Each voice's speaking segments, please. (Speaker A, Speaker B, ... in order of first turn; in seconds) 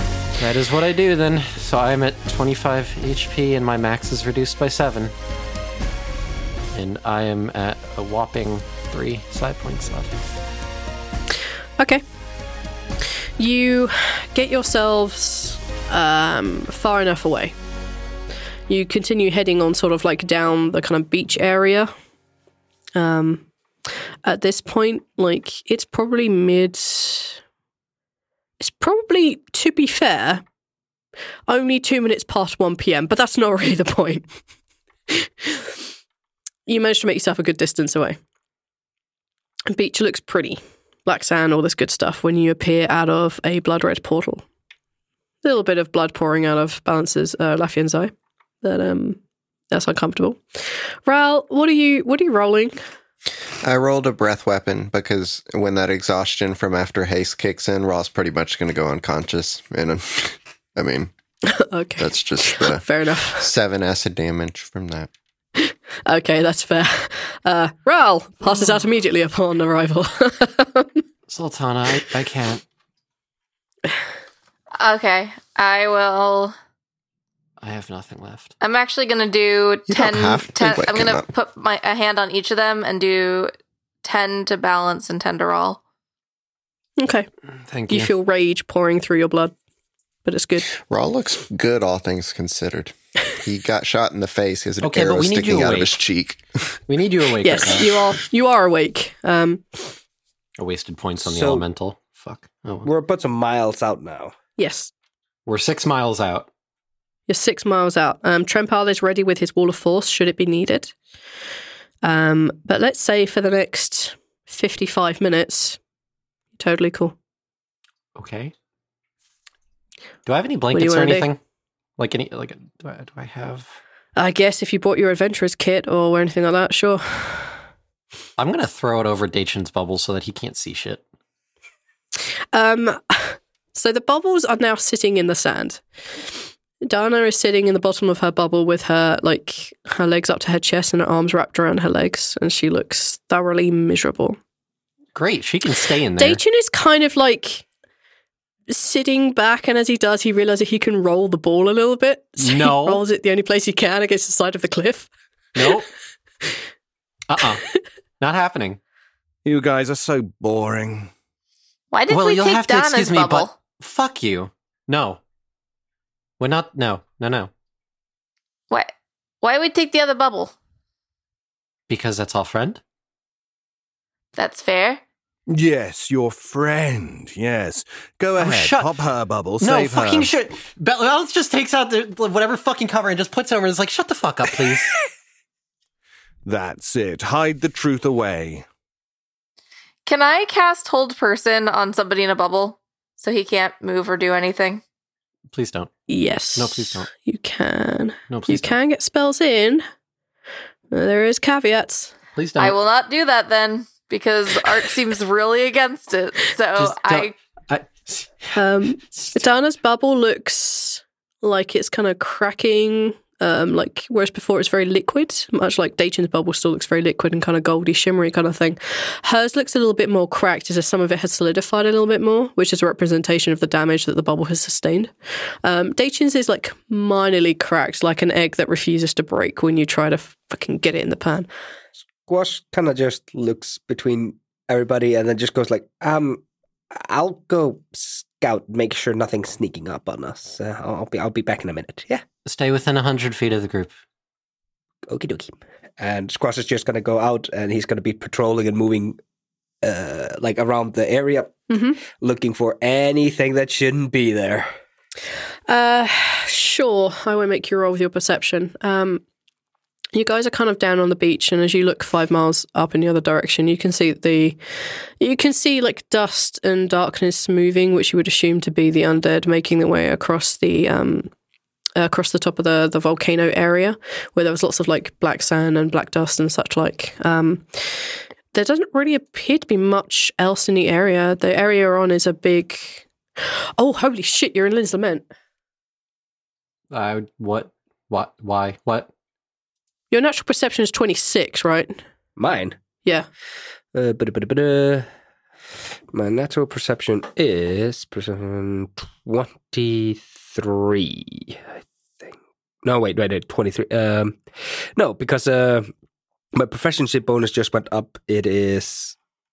Speaker A: 0.4-5.1, 6.7-10.1, 71.3-72.6, 77.6-78.5, 87.7-88.1, 94.8-96.0, 96.9-98.0, 100.6-102.9, 105.5-106.5, 118.2-118.5, 120.3-121.4, 122.0-123.8, 128.4-131.0, 145.2-146.4, 152.4-153.0, 155.6-155.9, 157.3-157.6, 158.2-158.8, 162.1-165.2, 166.4-167.5, 171.9-172.8, 178.4-179.0, 179.6-184.9, 195.5-195.9, 196.6-197.1, 198.3-198.8, 202.3-202.8, 206.8-208.6, 242.5-243.9, 286.9-289.1
Speaker B: 11.8-12.0, 13.4-17.6, 18.7-21.9, 23.0-23.5, 24.2-27.4, 28.6-30.4, 31.5-34.3, 35.1-35.7, 36.7-38.2, 39.7-44.5, 45.4-49.2, 49.7-52.8, 61.5-63.5, 65.6-71.0, 87.0-87.3, 87.9-89.5, 90.2-90.7, 97.4-99.9, 104.6-104.9, 107.3-110.9, 112.0-115.8, 116.6-117.2, 120.7-121.3, 124.2-127.6, 132.5-135.8, 136.8-144.4, 146.2-147.7, 148.7-155.8, 196.1-199.8, 200.9-202.2, 208.6-225.1, 225.6-231.5, 251.7-252.0, 255.7-259.2, 260.1-264.6, 265.2-271.3, 272.0-283.1, 283.8-285.3, 290.1-292.0
Speaker C: 53.6-61.1, 62.0-62.9, 63.4-65.1, 79.9-81.3, 90.8-96.8
Speaker D: 74.8-76.5, 78.6-83.5, 84.0-85.8, 161.9-163.6, 169.4-170.5, 174.4-175.0, 190.1-194.8, 202.6-207.3
Speaker E: 101.2-101.6, 102.8-104.4, 232.2-236.4, 236.9-242.2, 245.1-249.2, 249.8-254.7, 292.4-292.8, 293.9-295.1, 296.1-301.7, 302.2-304.4, 305.0-305.9, 306.5-309.2
Speaker F: 159.4-161.1, 175.5-180.3, 186.4-188.7